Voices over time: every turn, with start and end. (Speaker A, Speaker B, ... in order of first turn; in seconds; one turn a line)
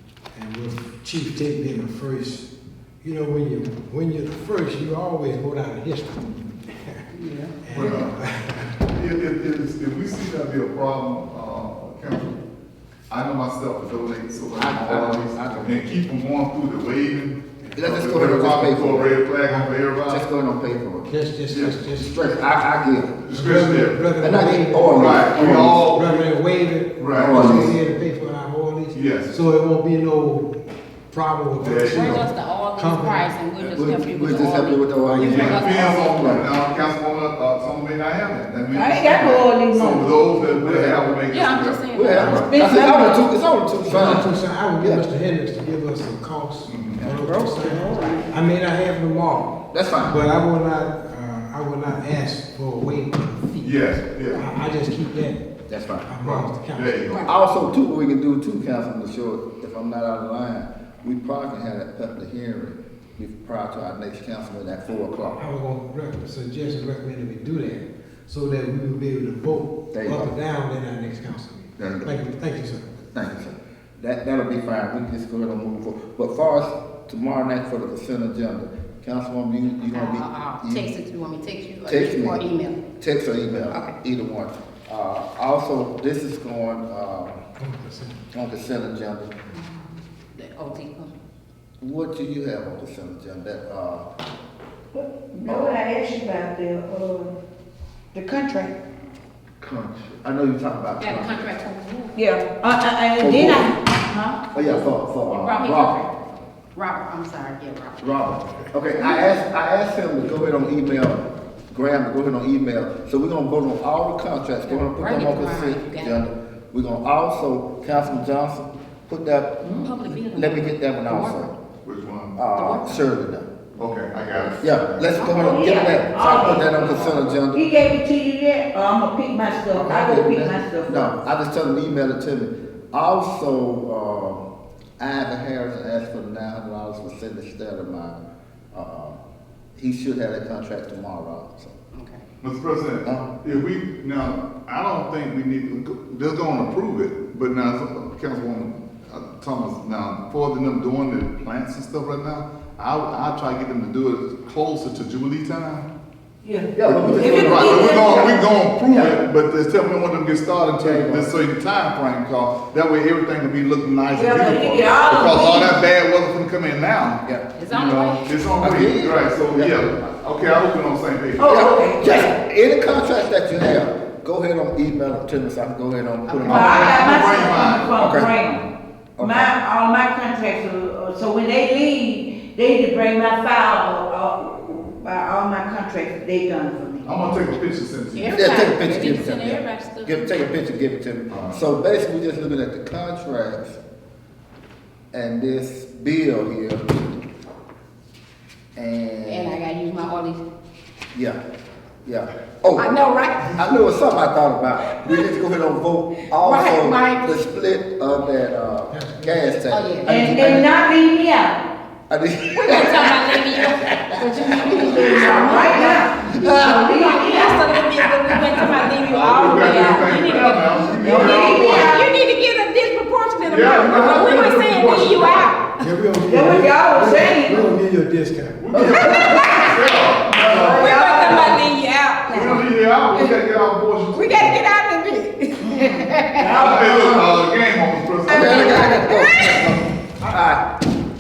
Speaker A: 0.3-2.5
Speaker A: 3.0-7.0
Speaker B: 7.2-7.5
Speaker A: 7.6-8.9
Speaker C: 7.7-8.1
Speaker C: 8.9-12.4
Speaker C: 13.1-20.2
Speaker D: 14.5-16.0
Speaker A: 17.6-17.9
Speaker D: 17.8-19.1
Speaker A: 19.4-19.8
Speaker D: 20.1-21.1
Speaker A: 21.1-22.3
Speaker C: 21.5-21.9
Speaker D: 22.0-23.3
Speaker C: 23.2-24.1
Speaker A: 23.3-30.6
Speaker D: 24.2-25.8
Speaker C: 24.9-26.3
Speaker C: 27.0-27.5
Speaker D: 27.1-27.8
Speaker C: 28.9-29.3
Speaker A: 31.1-32.2
Speaker C: 31.6-32.3
Speaker E: 31.9-36.5
Speaker A: 32.8-33.3
Speaker D: 33.6-36.5
Speaker C: 35.2-42.6
Speaker B: 38.7-40.4
Speaker D: 39.8-41.1
Speaker E: 41.3-42.5
Speaker D: 41.9-45.0
Speaker B: 42.3-43.3
Speaker A: 43.9-55.4
Speaker C: 46.7-47.1
Speaker D: 47.0-47.3
Speaker B: 47.2-48.3
Speaker D: 49.7-50.2
Speaker C: 53.6-54.5
Speaker D: 55.7-56.1
Speaker A: 56.1-57.2
Speaker C: 56.2-57.3
Speaker D: 57.1-65.4
Speaker A: 65.4-73.0
Speaker D: 69.9-70.3
Speaker D: 71.8-72.1
Speaker D: 73.1-80.9
Speaker E: 79.8-82.8
Speaker D: 81.9-82.4
Speaker D: 83.0-87.4
Speaker A: 87.6-88.2
Speaker D: 88.3-89.3
Speaker E: 89.5-91.1
Speaker D: 91.8-94.1
Speaker B: 94.9-97.3
Speaker D: 95.5-95.8
Speaker B: 98.1-98.8
Speaker D: 99.6-101.5
Speaker E: 101.0-102.2
Speaker B: 102.2-104.9
Speaker D: 103.2-103.7
Speaker D: 104.5-106.0
Speaker E: 105.3-106.1
Speaker E: 106.7-108.0
Speaker D: 108.0-121.5
Speaker B: 109.0-109.3
Speaker E: 114.7-116.3
Speaker E: 119.6-121.5
Speaker C: 121.8-122.4
Speaker D: 122.4-123.5
Speaker E: 122.5-123.1
Speaker C: 123.8-125.2
Speaker D: 124.4-127.6
Speaker E: 125.2-126.6
Speaker B: 125.2-131.1
Speaker C: 126.9-127.2
Speaker D: 129.7-134.5
Speaker D: 135.0-138.2
Speaker D: 138.7-139.2
Speaker D: 139.8-141.8
Speaker E: 141.9-142.2
Speaker C: 142.4-155.9
Speaker D: 143.0-143.3
Speaker B: 156.4-158.5
Speaker D: 156.8-157.9
Speaker C: 156.8-171.7
Speaker D: 158.9-159.2
Speaker D: 160.8-161.3
Speaker B: 164.1-165.8
Speaker D: 167.2-167.6
Speaker E: 167.6-168.4
Speaker D: 168.6-169.9
Speaker B: 171.4-172.3
Speaker D: 171.5-176.9
Speaker C: 176.4-178.1
Speaker B: 176.4-178.6
Speaker D: 177.9-178.4
Speaker D: 179.2-179.5
Speaker B: 179.2-187.3
Speaker C: 187.0-188.5
Speaker E: 188.1-190.5
Speaker D: 188.3-193.8
Speaker C: 191.3-191.6
Speaker D: 195.1-197.0
Speaker D: 198.8-199.6
Speaker E: 199.3-200.4
Speaker D: 201.1-201.4
Speaker D: 202.1-202.9
Speaker E: 202.7-203.6
Speaker D: 203.5-210.7
Speaker E: 205.0-205.3
Speaker E: 206.3-207.4
Speaker A: 208.9-210.3
Speaker E: 209.7-210.6
Speaker B: 210.1-211.6
Speaker D: 212.1-215.3
Speaker E: 212.6-225.8
Speaker B: 214.8-217.7
Speaker C: 218.9-222.0
Speaker B: 219.2-220.1
Speaker B: 221.0-222.1
Speaker C: 223.4-225.6
Speaker A: 225.8-228.7
Speaker B: 226.3-227.8
Speaker C: 228.6-231.1
Speaker D: 228.7-229.1
Speaker B: 229.0-229.5
Speaker E: 229.2-229.8
Speaker B: 230.3-231.7
Speaker E: 230.6-233.3
Speaker B: 232.3-232.6
Speaker C: 232.3-234.6
Speaker E: 234.1-236.6
Speaker B: 235.6-237.4
Speaker C: 236.5-239.0
Speaker B: 238.3-239.0
Speaker E: 238.3-239.8
Speaker D: 238.3-240.7